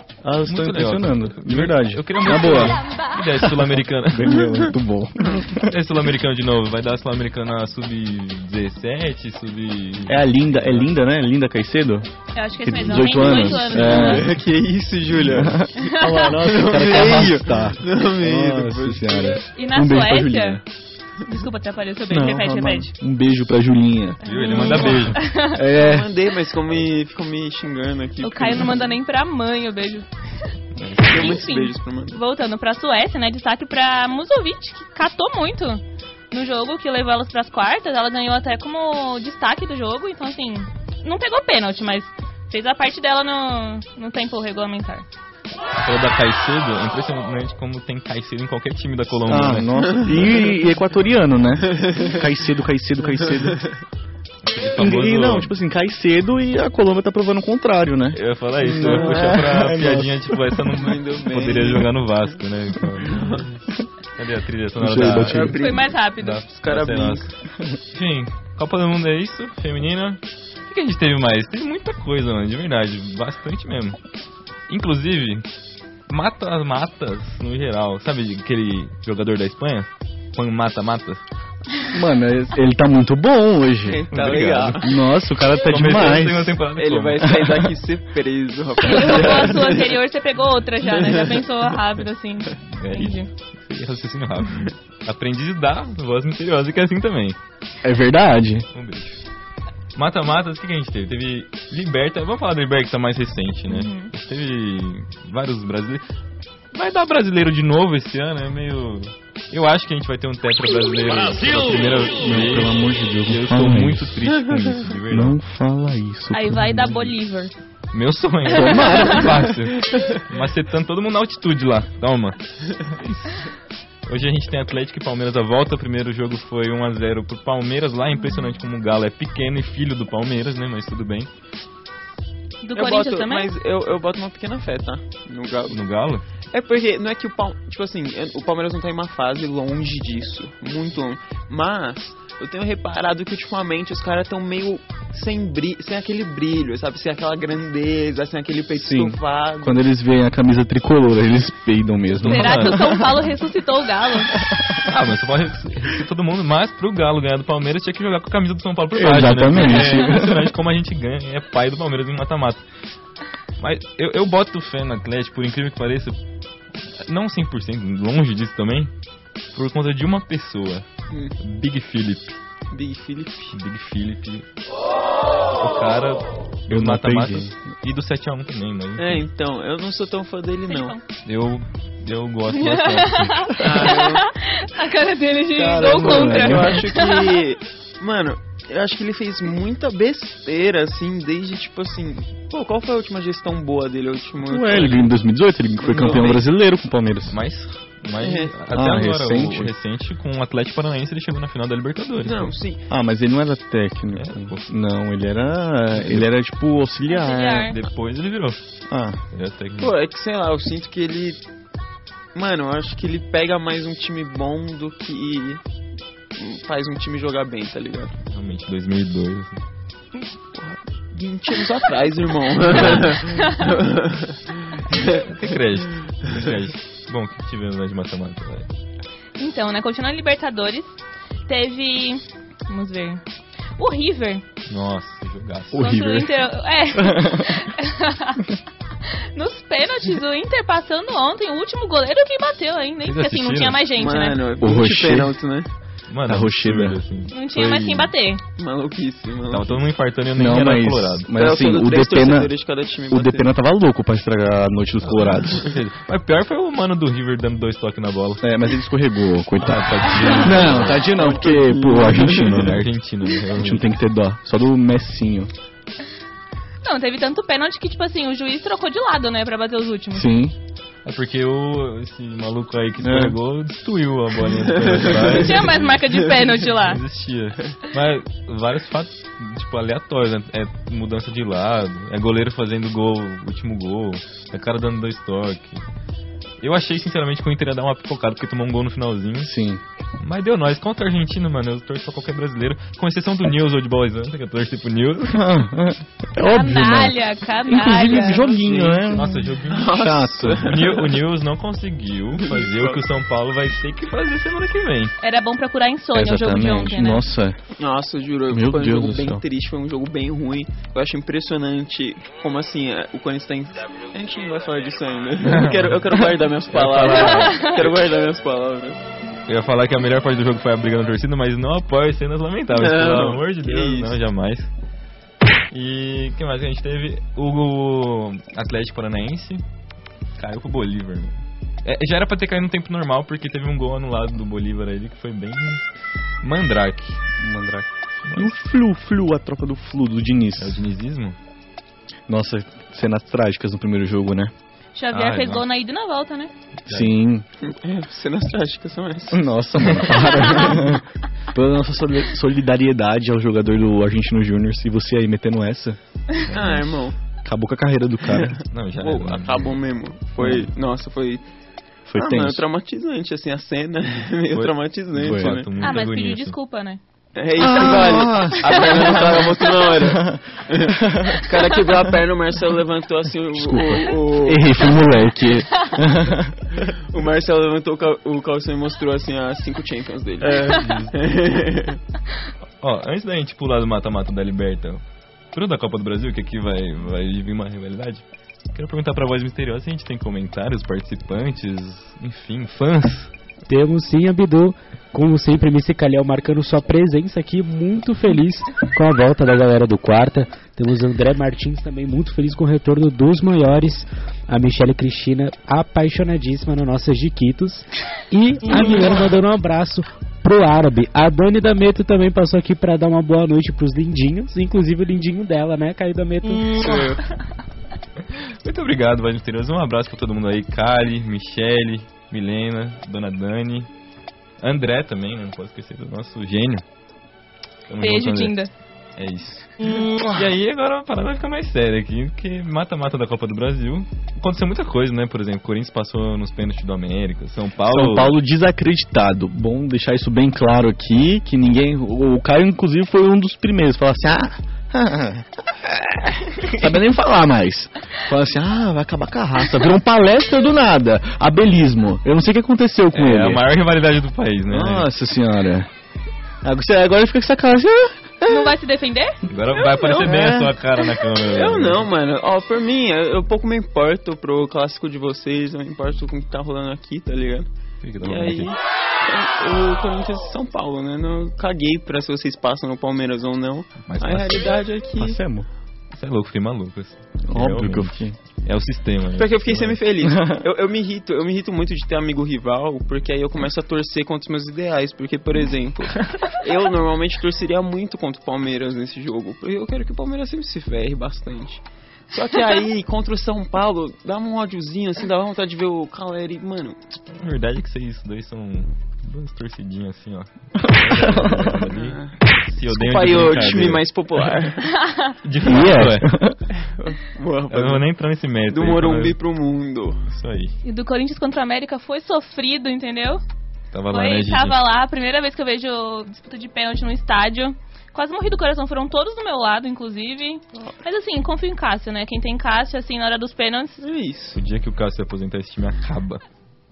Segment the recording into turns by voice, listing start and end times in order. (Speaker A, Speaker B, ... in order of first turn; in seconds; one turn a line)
Speaker A: 0.2-2.8
Speaker B: 0.4-4.5
Speaker A: 4.1-5.7
Speaker B: 5.6-10.9
Speaker A: 10.1-12.1
Speaker C: 12.3-14.2
Speaker A: 12.6-14.4
Speaker D: 13.2-15.7
Speaker A: 15.1-20.6
Speaker C: 15.8-16.4
Speaker D: 16.3-19.4
Speaker C: 19.5-20.6
Speaker C: 21.2-22.9
Speaker A: 22.1-26.1
Speaker B: 24.2-25.2
Speaker C: 24.3-25.6
Speaker D: 25.7-28.9
Speaker C: 28.2-30.1
Speaker B: 30.8-31.4
Speaker D: 31.1-32.2
Speaker C: 31.1-45.0
Speaker B: 45.8-50.1
Speaker A: 49.3-53.6
Speaker D: 49.8-50.5
Speaker D: 51.7-52.2
Speaker D: 53.3-53.7
Speaker B: 54.4-55.5
Speaker A: 54.8-60.5
Speaker B: 58.1-63.6
Speaker D: 58.7-59.5
Speaker D: 60.8-61.9
Speaker D: 63.1-63.5
Speaker B: 64.2-65.6
Speaker A: 64.8-65.6
Speaker D: 65.0-66.0
Speaker C: 65.6-66.4
Speaker B: 66.2-67.3
Speaker D: 66.5-67.3
Speaker B: 67.9-74.0
Speaker B: 74.7-75.5
Speaker B: 76.1-81.2
Speaker A: 81.9-84.1
Speaker D: 83.9-84.9
Speaker B: 84.1-84.8
Speaker A: 84.8-86.6
Speaker B: 85.7-87.4
Speaker D: 86.8-89.9
Speaker A: 87.2-87.7
Speaker C: 88.8-93.3
Speaker D: 90.9-91.4
Speaker B: 92.7-97.4
Speaker A: 97.8-98.7
Speaker B: 98.7-99.2
Speaker B: 100.0-106.0
Speaker C: 103.7-104.1
Speaker B: 106.7-115.4
Speaker A: 112.1-114.1
Speaker A: 115.1-117.1
Speaker C: 116.3-117.5
Speaker B: 117.9-123.5
Speaker A: 118.5-119.5
Speaker C: 118.8-119.2
Speaker B: 124.1-131.3
Speaker C: 132.6-133.5
Speaker D: 132.8-135.8
Speaker B: 135.7-136.2
Speaker D: 136.5-149.8
Speaker A: 148.8-153.1
Speaker B: 152.2-153.1
Speaker C: 152.3-154.4
Speaker B: 154.8-162.6
Speaker A: 158.9-160.5
Speaker B: 163.6-166.2
Speaker B: 167.0-168.9
Speaker B: 169.5-170.9
Speaker D: 171.1-171.4
Speaker B: 171.4-172.4
Speaker D: 172.7-173.6
Speaker B: 173.5-174.5
Speaker B: 175.6-179.2
Speaker A: 176.7-177.5
Speaker D: 179.0-180.9
Speaker C: 180.7-181.0
Speaker B: 181.2-183.6
Speaker C: 182.5-187.3
Speaker D: 183.6-184.2
Speaker A: 185.6-186.9
Speaker D: 185.7-195.1
Speaker A: 194.4-197.4
Speaker D: 195.8-196.4
Speaker B: 197.3-202.5
Speaker D: 198.2-198.6
Speaker A: 198.7-199.7
Speaker D: 202.2-202.8
Speaker A: 202.9-207.7
Speaker B: 204.1-204.7
Speaker B: 205.9-206.3
Speaker C: 207.1-207.8
Speaker B: 207.7-208.6
Speaker A: 208.9-209.2
Speaker B: 209.3-209.9
Speaker D: 209.8-211.4
Speaker D: 212.3-215.6
Speaker D: 216.4-218.1
Speaker B: 218.2-219.6
Speaker D: 220.5-225.3
Speaker B: 222.7-223.2
Speaker B: 225.1-228.7
Speaker C: 229.4-230.9
Speaker C: 231.5-233.2
Speaker C: 233.8-234.4
Speaker B: 234.7-236.0
Speaker A: 235.7-236.3
Speaker C: 235.7-238.5
Speaker A: 237.0-237.6
Speaker C: 239.1-244.4
Speaker B: 243.0-243.8
Speaker D: 243.9-245.7
Speaker A: 244.6-245.4
Speaker B: 246.1-248.1
Speaker A: 246.3-247.0
Speaker C: 247.3-248.4
Speaker D: 248.6-249.8
Speaker B: 249.5-251.3
Speaker A: 250.3-252.5
Speaker D: 251.3-253.5
Speaker A: 253.1-255.7
Speaker B: 255.0-258.4
Speaker A: 258.4-262.9
Speaker B: 259.6-261.1
Speaker D: 260.4-262.7
Speaker B: 262.3-263.9
Speaker A: 263.6-265.5
Speaker C: 266.8-270.3
Speaker A: 270.1-270.6
Speaker B: 271.1-285.8
Speaker A: 273.0-273.4
Speaker D: 274.7-275.7
Speaker C: 275.3-277.0
Speaker B: 286.6-289.5
Speaker A: 289.4-289.8
Speaker B: 290.2-295.6
Speaker A: 295.3-300.8
Speaker C: 296.4-298.5
Speaker D: 298.1-299.1
Speaker B: 299.1-305.1
Speaker D: 299.7-301.1
Speaker D: 302.4-303.0
Speaker C: 305.2-307.2
Speaker A: 306.1-307.6
Speaker D: 307.8-319.0
Speaker A: 308.5-309.4
Speaker B: 315.4-316.1
Speaker B: 316.7-318.0
Speaker B: 319.5-324.7
Speaker D: 322.7-324.2
Speaker B: 325.7-329.6
Speaker B: 330.4-335.9
Speaker B: 336.4-337.2
Speaker A: 337.4-340.8
Speaker B: 338.2-338.6
Speaker B: 340.6-341.4
Speaker A: 342.3-344.5
Speaker C: 345.0-346.5
Speaker B: 345.1-345.6
Speaker B: 346.9-347.1
Speaker A: 346.9-347.4
Speaker D: 347.6-349.5
Speaker A: 349.3-356.0
Speaker B: 356.4-357.0
Speaker D: 356.5-357.2
Speaker A: 357.4-358.6
Speaker B: 358.7-359.8
Speaker D: 359.0-361.4
Speaker A: 360.4-360.7
Speaker A: 362.1-362.6
Speaker D: 362.2-365.7
Speaker B: 364.5-366.6
Speaker A: 365.2-365.6
Speaker C: 365.8-367.0
Speaker D: 367.4-374.9
Speaker A: 367.6-371.5
Speaker A: 373.5-376.6
Speaker D: 376.9-382.0
Speaker B: 380.4-381.1
Speaker B: 382.8-385.0
Speaker B: 385.5-393.3
Speaker E: 393.7-416.7
Speaker D: 416.7-417.2
Speaker B: 418.4-423.9
Speaker B: 424.6-426.8
Speaker B: 427.9-428.6
Speaker C: 428.0-428.7
Speaker B: 429.2-438.4
Speaker A: 437.9-453.6
Speaker B: 453.1-455.1
Speaker A: 454.7-455.9
Speaker A: 456.6-458.8
Speaker C: 458.5-459.4
Speaker B: 459.5-462.1
Speaker D: 459.7-460.8
Speaker D: 461.4-467.7
Speaker B: 468.0-468.7
Speaker D: 468.2-475.4
Speaker B: 474.1-474.7
Speaker A: 475.2-475.7
Speaker B: 476.1-480.0
Speaker A: 477.5-478.4
Speaker D: 479.4-497.0
Speaker A: 480.3-480.6
Speaker B: 497.4-504.5
Speaker A: 500.8-501.9
Speaker D: 501.9-504.9
Speaker C: 505.0-505.3
Speaker B: 505.4-506.3
Speaker A: 505.6-506.6
Speaker D: 506.8-508.1
Speaker B: 507.7-509.4
Speaker D: 508.7-510.2
Speaker B: 510.3-510.7
Speaker C: 510.8-513.4
Speaker B: 513.9-514.8
Speaker C: 514.1-524.0
Speaker D: 524.0-524.6
Speaker B: 524.5-526.4